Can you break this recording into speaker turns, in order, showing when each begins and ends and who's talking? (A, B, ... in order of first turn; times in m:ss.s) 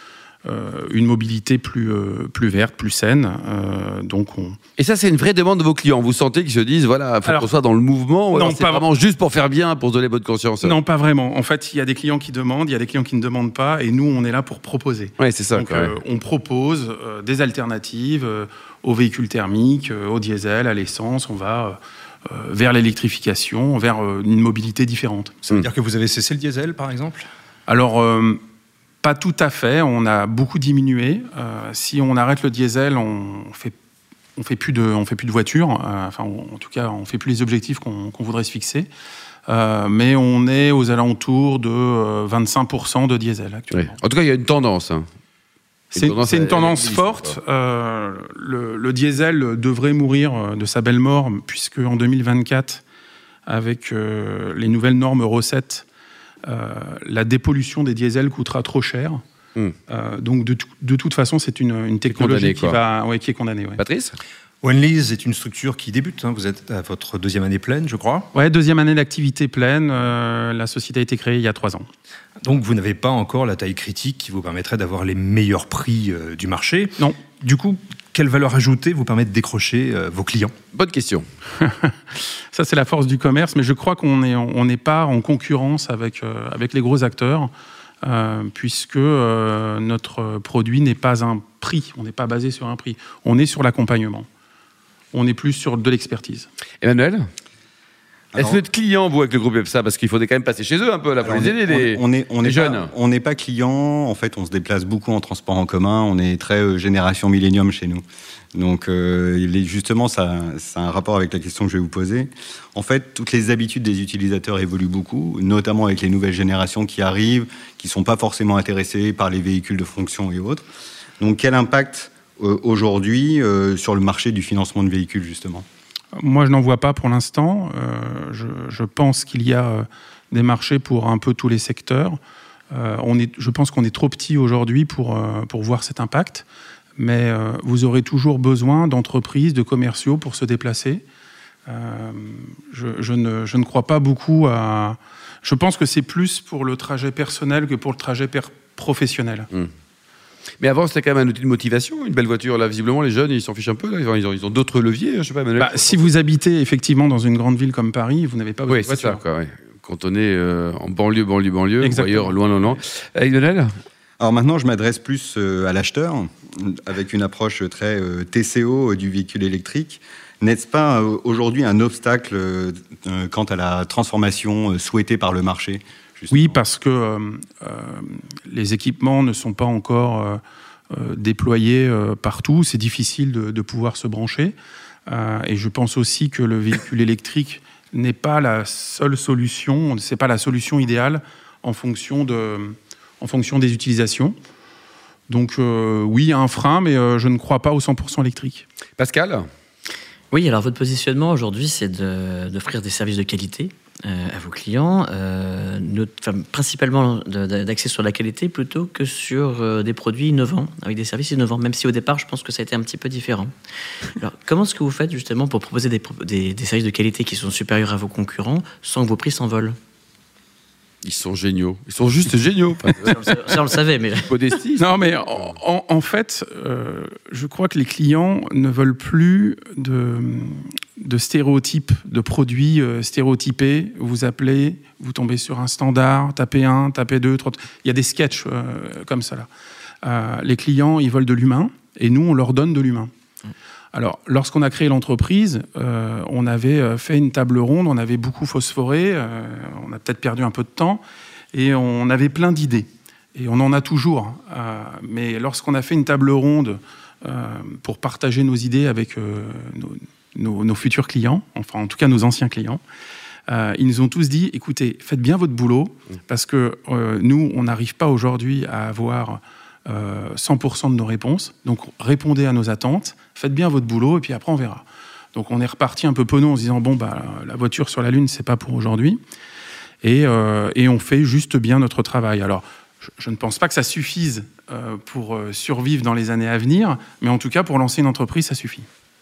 0:00.4-0:04.6 A
0:04.8-0:10.8 B
0:07.2-0:07.5 A
0:08.3-0:08.8 A
0:10.6-0:25.5 A
0:15.2-0:15.9 B
0:25.5-0:27.3 C
0:27.7-0:28.4 A
0:29.0-0:33.8 A
0:34.4-0:38.9 A
0:39.5-0:44.0 A
0:43.7-0:45.1 B
0:45.9-0:47.4 B
0:46.0-0:52.8 A
0:53.5-0:55.9 A
0:56.5-0:59.2 A
0:59.9-1:03.8 A
1:02.1-1:02.8 B
1:03.8-1:04.2 B
1:04.6-1:08.3 C
1:08.3-1:11.9 A
1:12.4-1:20.5 C
1:20.7-1:21.3 B
1:21.6-1:21.9 A
1:22.5-1:27.5 A
1:28.0-1:34.3 A
1:35.1-1:36.5 A
1:36.8-1:37.3 B
1:38.3-1:38.6 D
1:38.4-1:42.9 B
1:41.2-1:48.0 D
1:48.5-2:00.6 D
2:01.2-2:05.6 D
2:06.2-2:12.2 A
2:12.7-2:21.0 A
2:21.7-2:29.5 A
2:30.6-2:36.1 B
2:35.6-2:39.2 A
2:38.7-2:43.7 B
2:41.8-2:42.8 A
2:44.2-2:56.6 D
2:56.3-3:04.6 A
3:05.1-3:14.4 A
3:15.3-3:18.6 A
3:19.0-3:19.5 B
3:20.3-3:39.8 E
3:41.0-3:43.6 B
3:43.0-3:44.3 E
3:44.2-3:44.8 B
3:44.8-3:59.5 A
4:00.0-4:03.1 A
4:03.9-4:11.0 A
4:11.5-4:22.8 A
4:23.5-4:39.2 A
4:40.0-4:42.6 A
4:43.2-4:48.9 A